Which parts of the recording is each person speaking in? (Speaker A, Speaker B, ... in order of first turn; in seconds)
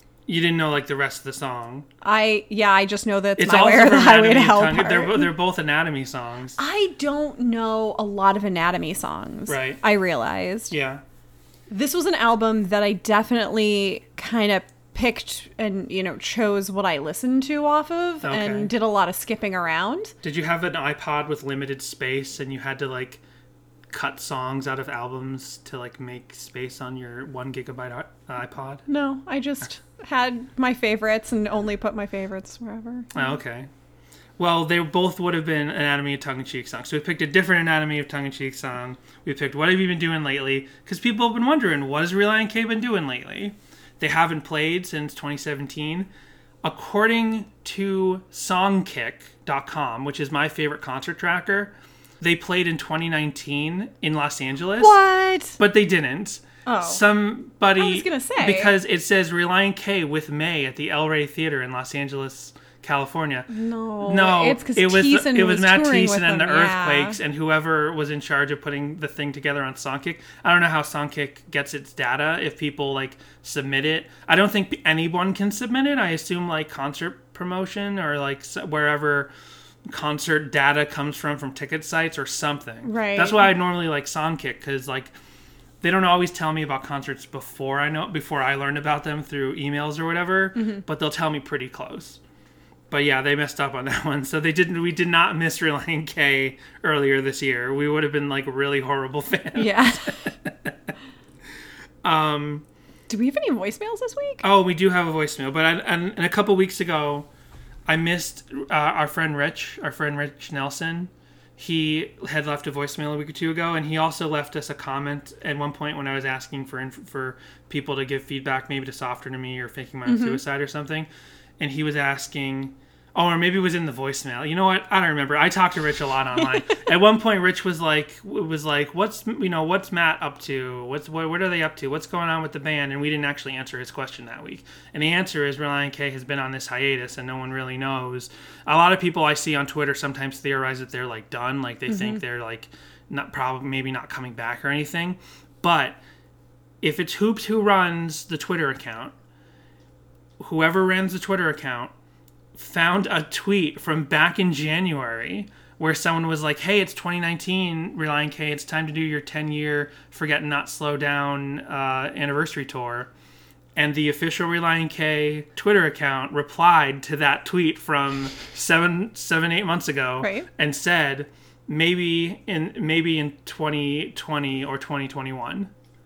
Speaker A: 0.3-1.9, 3.4-6.6, 9.5-9.8, 10.7-11.0, 18.2-18.7, 20.2-23.2, 23.9-28.8, 33.1-33.7, 34.4-46.1, 46.6-54.9, 55.6-63.5, 64.0-79.3, 79.8-85.1, 85.8-92.2, 92.9-100.7, 102.0-102.6, 104.4-107.3, 107.9-146.0, 146.8-149.1, 150.4-151.9, 152.5-163.1, 163.8-175.7
Speaker B: 2.0-5.3, 6.6-10.7, 11.7-20.1, 28.9-33.3, 54.8-55.6, 56.6-57.0, 57.8-58.7, 63.5-67.2, 82.8-83.5, 90.5-90.8, 99.5-100.3, 103.1-104.4, 120.0-120.4, 141.9-142.2, 170.2-170.5